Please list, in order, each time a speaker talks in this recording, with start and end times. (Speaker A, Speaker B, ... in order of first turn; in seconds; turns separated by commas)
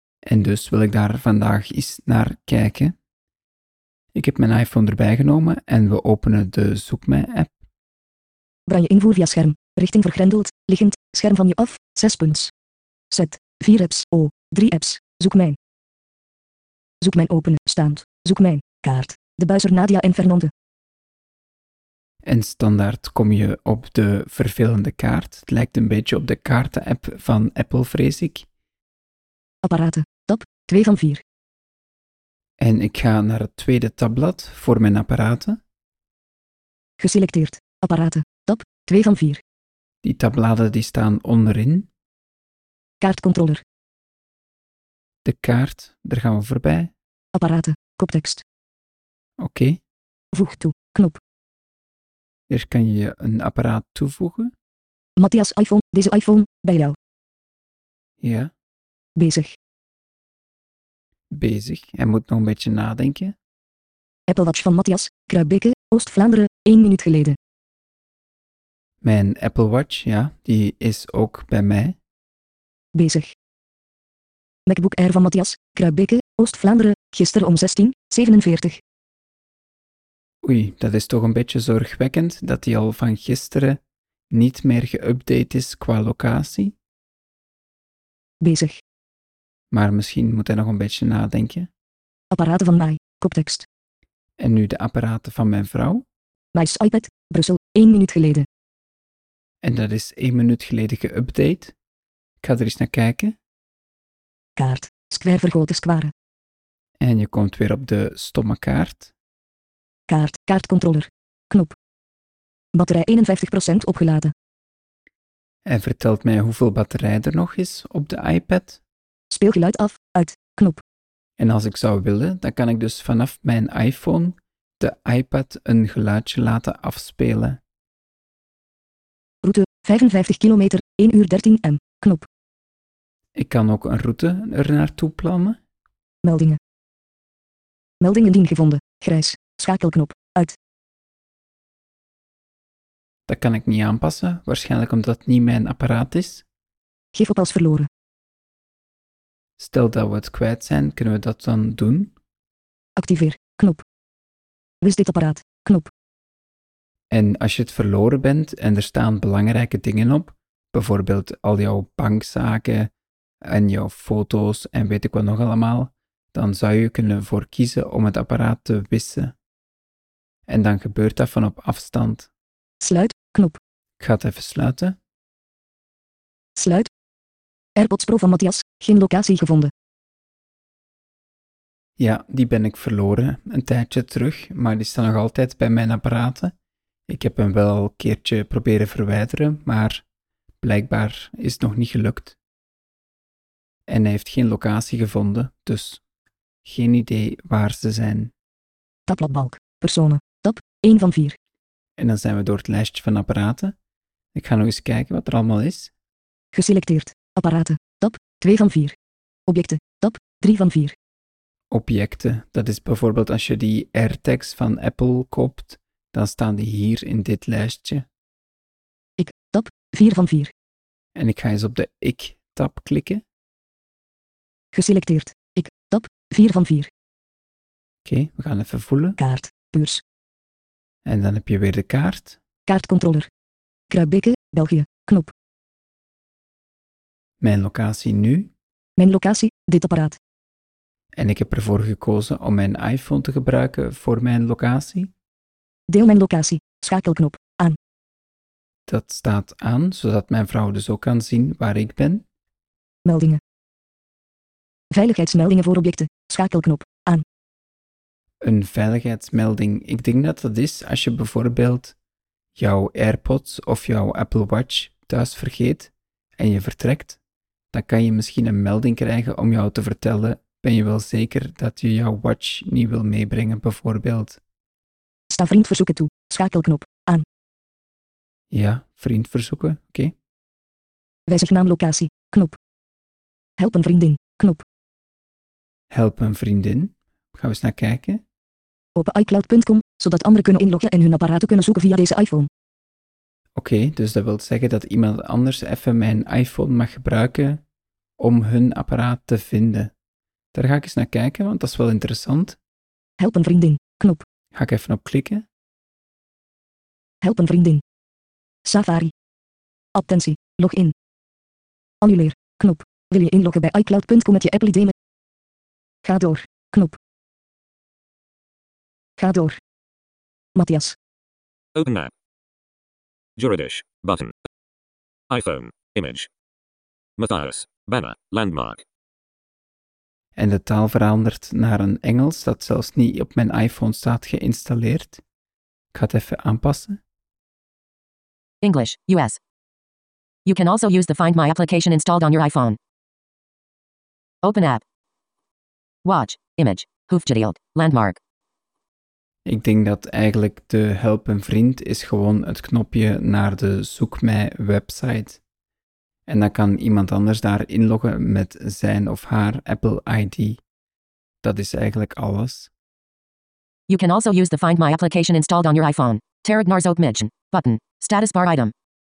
Speaker A: 0.2-2.9, Speaker A: 4.1-7.5, Speaker B: 8.7-12.5, Speaker B: 13.1-15.6, Speaker B: 17.0-20.5, Speaker A: 22.2-28.5, Speaker B: 29.6-31.2, Speaker A: 32.6-35.6, Speaker B: 37.0-39.4, Speaker A: 40.0-41.9, Speaker B: 43.0-43.6, Speaker A: 45.2-46.9, Speaker B: 47.3-48.4, Speaker A: 49.4-49.8, Speaker B: 50.3-51.2, Speaker A: 52.5-54.5, Speaker B: 55.2-57.0, Speaker A: 58.2-58.5, Speaker B: 59.2-59.5, Speaker A: 61.3-63.3, Speaker B: 64.3-67.3, Speaker A: 69.0-72.0, Speaker B: 72.9-73.3, Speaker B: 74.7-78.8, Speaker A: 80.4-83.8, Speaker A: 84.3-86.7, Speaker B: 88.4-88.8, Speaker A: 89.7-91.7, Speaker B: 92.3-93.7, Speaker A: 94.4-96.0, Speaker B: 96.5-98.5, Speaker A: 99.6-101.7, Speaker A: 102.4-103.3, Speaker B: 104.6-106.1, Speaker A: 107.0-109.1, Speaker B: 110.1-111.7, Speaker B: 112.7-114.3, Speaker A: 115.6-118.8, Speaker B: 119.3-120.8, Speaker A: 121.4-127.6, Speaker B: 129.4-132.3, Speaker A: 133.3-135.6, Speaker B: 136.2-136.6, Speaker B: 138.0-140.6, Speaker A: 143.3-146.4, Speaker B: 147.1-147.9, Speaker A: 149.6-152.1, Speaker B: 153.0-153.8, Speaker B: 154.8-155.9, Speaker A: 157.1-162.9, Speaker A: 163.4-169.3, Speaker A: 170.5-172.3, Speaker B: 172.8-173.6, Speaker A: 174.0-175.0, Speaker B: 176.6-176.9, Speaker B: 177.8-179.7, Speaker A: 182.0-186.5, Speaker A: 187.1-190.0, Speaker A: 190.6-192.4, Speaker A: 193.9-196.0, Speaker A: 196.6-198.3, Speaker B: 199.1-201.4, Speaker A: 202.0-203.7, Speaker A: 204.3-205.9, Speaker B: 206.5-208.9, Speaker B: 209.5-210.9, Speaker A: 211.7-218.1, Speaker B: 219.2-220.5, Speaker A: 221.1-223.2, Speaker B: 224.7-226.9, Speaker A: 228.0-229.2, Speaker B: 229.2-230.0, Speaker A: 231.0-232.4, Speaker B: 232.7-233.3, Speaker B: 233.9-235.3, Speaker A: 237.4-238.5, Speaker B: 239.0-240.2, Speaker A: 241.1-245.1, Speaker B: 245.9-247.8, Speaker A: 248.9-252.2, Speaker B: 253.0-253.4, Speaker B: 254.9-257.2, Speaker A: 258.4-261.9, Speaker A: 262.5-267.2, Speaker A: 267.7-274.4, Speaker B: 275.3-277.2, Speaker A: 278.5-280.1, Speaker B: 281.3-282.6, Speaker B: 283.6-284.6, Speaker A: 285.9-288.2, Speaker B: 288.9-292.5, Speaker A: 293.6-297.6, Speaker A: 298.2-299.9, Speaker A: 300.5-302.6, Speaker B: 303.2-304.2, Speaker A: 304.5-305.4, Speaker B: 307.2-307.8, Speaker B: 308.6-309.1, Speaker B: 309.9-310.9, Speaker B: 312.0-314.9, Speaker B: 316.0-317.0, Speaker B: 319.2-319.6, Speaker B: 320.5-320.9, Speaker C: 321.8-322.1, Speaker C: 323.4-324.3, Speaker C: 325.3-326.3, Speaker C: 327.2-328.8, Speaker A: 330.4-335.2, Speaker A: 335.9-337.0, Speaker D: 338.6-339.4, Speaker D: 340.4-342.8, Speaker D: 344.4-344.8, Speaker D: 346.0-348.2, Speaker A: 349.4-355.4, Speaker A: 356.3-360.6, Speaker A: 361.4-362.7, Speaker D: 363.9-368.7